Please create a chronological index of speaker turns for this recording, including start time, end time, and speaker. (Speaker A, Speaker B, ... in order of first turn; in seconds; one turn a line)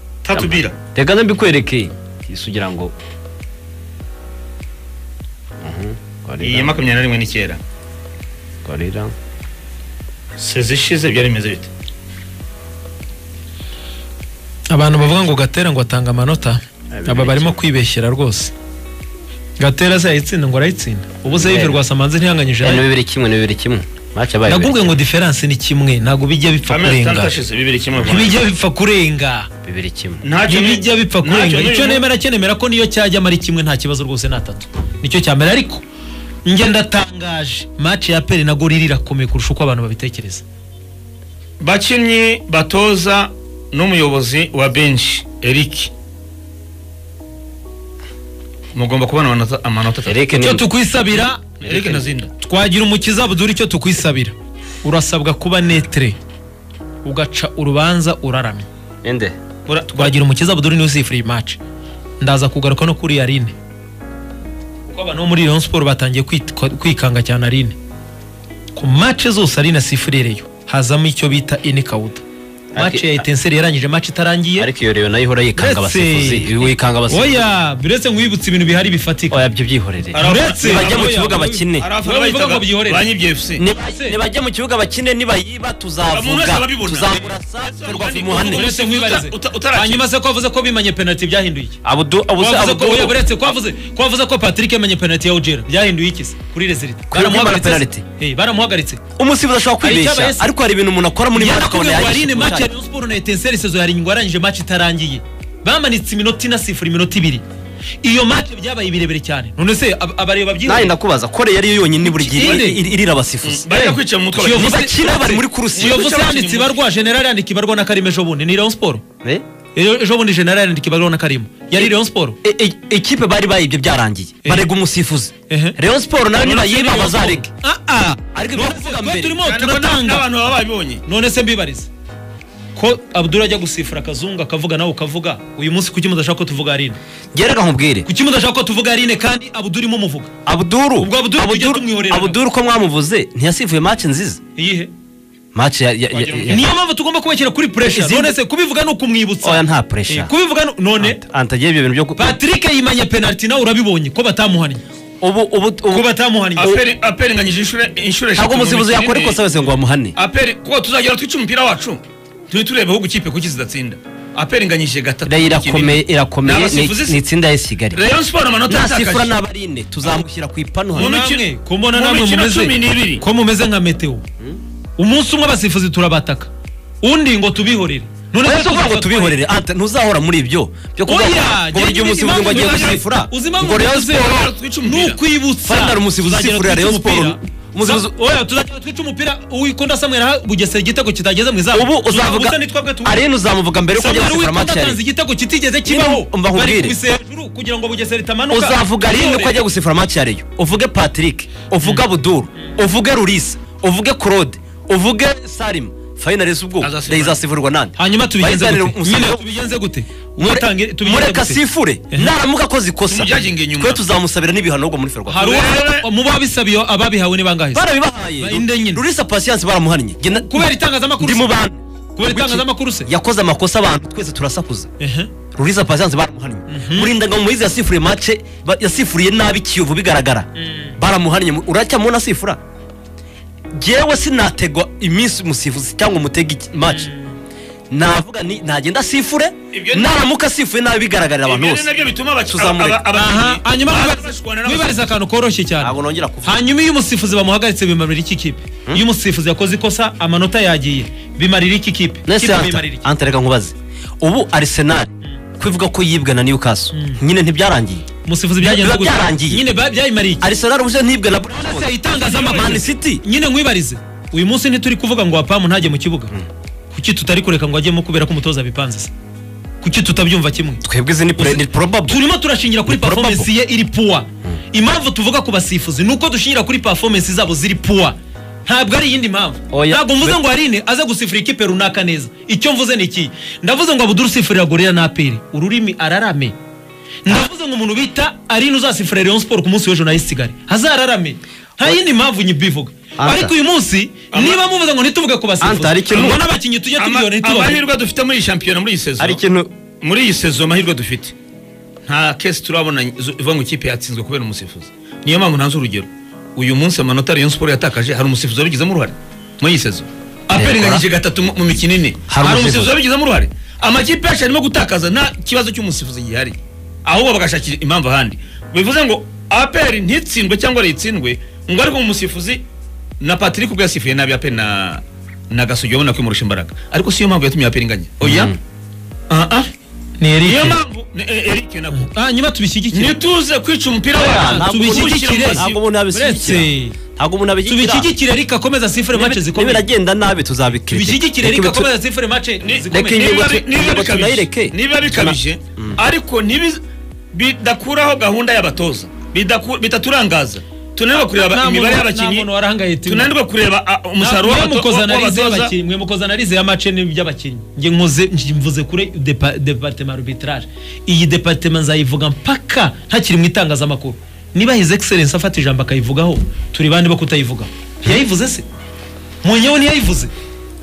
Speaker A: 0.2-0.8
Speaker B: 0.3-2.9
Speaker B: 5.6-6.7
Speaker A: 6.4-7.6
Speaker B: 8.7-9.1
Speaker A: 10.4-11.7
Speaker C: 14.7-18.5
Speaker B: 16.9-17.6
Speaker C: 19.6-22.9
Speaker B: 21.2-21.8
Speaker B: 22.6-24.9
Speaker C: 24.5-27.4
Speaker A: 26.7-28.4
Speaker C: 28.0-29.5
Speaker B: 29.6-30.2
Speaker A: 30.2-32.0
Speaker C: 30.5-35.8
Speaker C: 36.5-40.4
Speaker A: 41.6-45.9
Speaker A: 48.8-50.2
Speaker B: 50.1-50.7
Speaker C: 50.4-56.2
Speaker A: 51.6-52.3
Speaker C: 57.0-58.7
Speaker B: 59.0-59.4
Speaker A: 59.7-60.1
Speaker C: 59.9-61.6
Speaker C: 62.2-63.5
Speaker C: 64.9-67.8
Speaker C: 68.8-72.2
Speaker B: 72.7-73.2
Speaker C: 72.8-74.7
Speaker B: 74.6-77.5
Speaker C: 75.6-76.5
Speaker C: 77.1-79.4
Speaker B: 79.3-81.9
Speaker A: 80.1-81.2
Speaker C: 80.1-83.1
Speaker A: 81.8-83.7
Speaker B: 83.6-88.7
Speaker C: 83.8-84.2
Speaker A: 86.0-90.0
Speaker C: 88.3-91.8
Speaker B: 91.8-93.2
Speaker C: 92.4-99.0
Speaker B: 97.1-98.0
Speaker B: 99.2-102.7
Speaker C: 99.8-100.5
Speaker C: 101.3-107.4
Speaker C: 108.0-110.9
Speaker B: 110.7-113.6
Speaker C: 112.0-112.8
Speaker A: 112.4-112.7
Speaker A: 113.4-116.8
Speaker C: 113.7-119.0
Speaker B: 114.5-116.0
Speaker C: 119.8-122.4
Speaker B: 122.4-127.5
Speaker C: 124.4-124.7
Speaker C: 125.5-125.8
Speaker A: 126.4-127.0
Speaker C: 126.7-130.3
Speaker B: 128.3-129.4
Speaker A: 129.4-131.0
Speaker C: 131.1-131.9
Speaker C: 132.8-137.0
Speaker B: 137.3-138.1
Speaker C: 138.1-140.3
Speaker B: 140.5-144.4
Speaker C: 141.0-142.4
Speaker C: 144.6-144.9
Speaker B: 145.5-146.6
Speaker A: 146.2-146.6
Speaker C: 146.5-151.2
Speaker B: 147.9-148.3
Speaker B: 149.4-150.3
Speaker B: 151.0-152.4
Speaker C: 152.2-154.8
Speaker B: 155.2-156.1
Speaker C: 155.9-156.8
Speaker A: 156.6-159.4
Speaker B: 158.4-160.2
Speaker A: 160.2-167.2
Speaker B: 165.3-168.0
Speaker A: 167.9-169.3
Speaker B: 168.7-171.1
Speaker A: 171.0-173.2
Speaker C: 171.0-174.2
Speaker C: 175.0-176.5
Speaker C: 177.0-179.4
Speaker B: 178.4-184.5
Speaker C: 181.1-193.2
Speaker A: 182.5-183.0
Speaker A: 184.1-185.2
Speaker B: 185.7-188.1
Speaker B: 191.7-195.0
Speaker C: 193.9-199.6
Speaker B: 195.9-197.0
Speaker B: 198.5-209.5
Speaker A: 206.8-207.4
Speaker C: 208.0-212.3
Speaker B: 210.4-215.5
Speaker A: 213.1-214.1
Speaker C: 215.3-219.0
Speaker A: 215.3-216.1
Speaker B: 217.7-224.9
Speaker C: 220.3-221.6
Speaker C: 222.2-223.1
Speaker C: 225.0-225.3
Speaker B: 225.5-232.6
Speaker C: 226.7-227.1
Speaker C: 230.6-231.0
Speaker B: 233.7-237.1
Speaker C: 236.8-237.3
Speaker B: 237.9-241.9
Speaker A: 239.7-240.2
Speaker A: 241.4-245.1
Speaker B: 242.5-243.0
Speaker C: 243.1-253.0
Speaker B: 245.8-246.6
Speaker B: 252.3-258.1
Speaker C: 256.9-257.2
Speaker C: 258.2-260.5
Speaker B: 258.6-259.7
Speaker B: 260.4-263.2
Speaker C: 261.5-266.3
Speaker C: 266.9-269.1
Speaker C: 269.8-270.8
Speaker B: 270.8-272.2
Speaker C: 271.4-286.6
Speaker B: 272.9-273.5
Speaker B: 279.7-280.4
Speaker C: 287.2-297.8
Speaker B: 293.2-293.6
Speaker A: 294.3-294.6
Speaker B: 295.6-296.4
Speaker A: 296.1-296.4
Speaker A: 297.0-299.4
Speaker B: 299.2-299.7
Speaker A: 300.0-301.3
Speaker A: 302.1-322.6
Speaker B: 310.6-311.1
Speaker B: 312.3-313.0
Speaker A: 323.2-328.5
Speaker B: 328.2-328.6
Speaker A: 329.3-329.7
Speaker C: 330.2-330.8
Speaker A: 330.4-332.1
Speaker C: 331.9-333.1
Speaker A: 332.9-335.8
Speaker B: 334.1-338.1
Speaker C: 334.2-337.0
Speaker C: 337.6-339.9
Speaker B: 339.1-341.9
Speaker C: 340.9-343.4
Speaker A: 342.6-346.8
Speaker B: 342.9-346.0
Speaker A: 347.3-352.5
Speaker C: 351.2-353.4
Speaker A: 353.1-355.7
Speaker C: 354.2-368.6
Speaker C: 369.4-370.3